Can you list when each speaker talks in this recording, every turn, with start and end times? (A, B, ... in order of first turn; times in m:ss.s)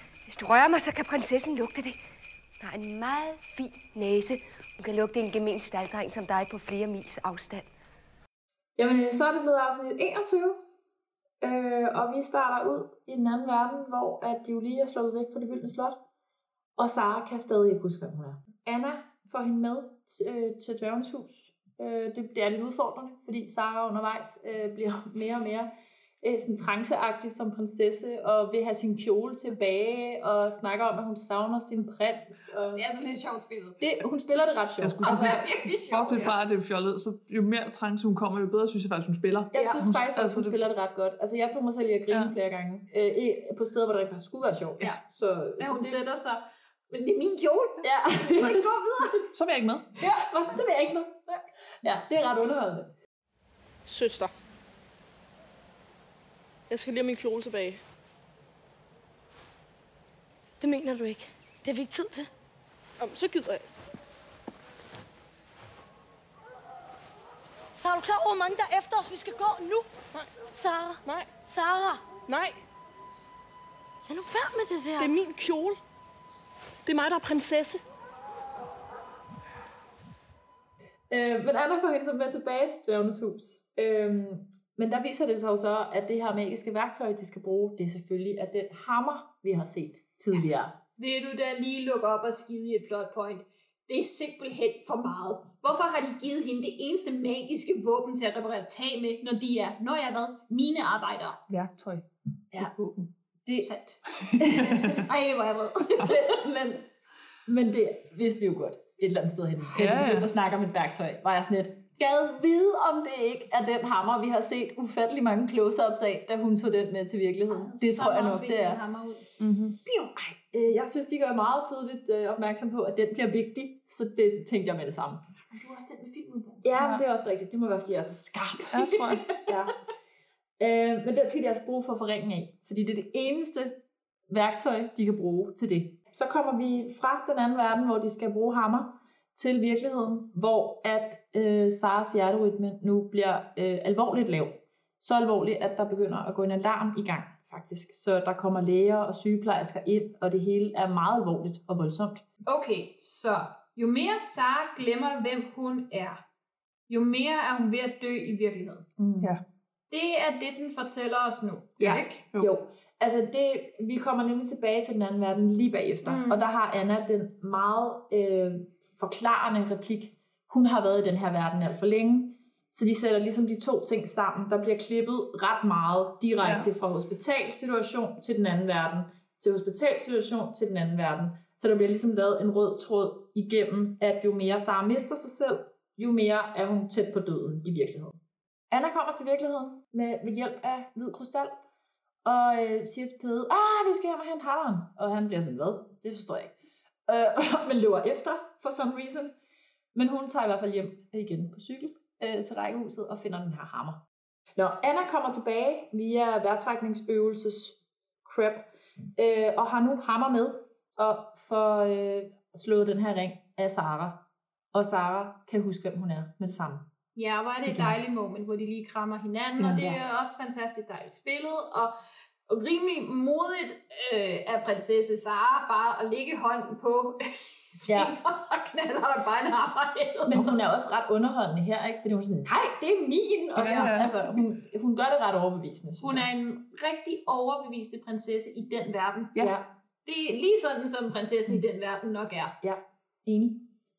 0:00.3-0:02.0 A
0:02.6-0:07.6 A
0:08.8-0:10.6 B
0:11.4-0:16.0 B
0:16.8-0:25.7 B
0:26.2-0:32.8 B
0:32.7-0:33.8 C
0:33.8-0:35.4 B
0:34.8-0:40.6 D
0:35.0-0:36.3 C
0:39.5-0:46.0 B
0:39.5-0:39.8 C
0:45.6-0:49.2 C
0:47.8-0:49.1 B
0:49.3-0:49.9 D
0:50.1-0:52.9 B
0:53.9-0:54.2 E
0:53.9-0:54.2 F
0:56.7-0:57.7 F
0:56.8-0:57.8 E
1:00.6-1:02.3 E
1:03.0-1:03.5 F
1:07.8-1:09.8 E
1:10.5-1:12.0 E
1:14.0-1:15.3 E
1:15.0-1:15.7 F
1:16.9-1:17.8 E
1:21.1-1:30.8 B
1:31.0-1:41.4 C
1:41.5-1:43.1 D
1:43.6-1:44.0 C
1:44.3-1:45.0 D
1:44.4-1:45.0 B
1:44.6-1:46.3 C
1:46.0-1:46.8 B
1:47.4-1:58.8 B
1:49.7-1:50.3 D
1:57.5-1:59.3 C
1:59.4-1:59.8 D
1:59.8-2:00.1 C
2:00.2-2:05.2 B
2:05.5-2:06.7 C
2:06.6-2:08.8 B
2:06.8-2:07.0 D
2:08.7-2:09.3 D
2:09.0-2:09.5 C
2:09.4-2:09.7 B
2:10.6-2:32.2 B
2:32.4-2:36.2 C
2:36.9-2:38.9 C
2:39.0-2:39.3 B
2:39.9-2:42.2 C
2:41.8-3:08.2 B
2:46.0-2:46.4 C
2:56.4-2:56.7 D
3:08.7-3:11.6 B
3:12.2-3:16.5 B
3:17.1-3:19.3 B
3:19.9-3:24.0 B
3:24.6-3:36.8 B
3:37.1-3:41.9 C
3:37.7-3:37.9 B
3:39.7-3:40.0 B
3:42.5-3:47.2 C
3:47.8-3:50.6 C
3:47.8-3:48.1 B
3:50.3-3:56.3 B
3:53.6-3:54.4 D
3:53.6-3:53.9 C
3:56.0-3:59.3 C
3:59.4-3:59.7 B
4:00.0-4:02.6 C
4:02.6-4:03.7 B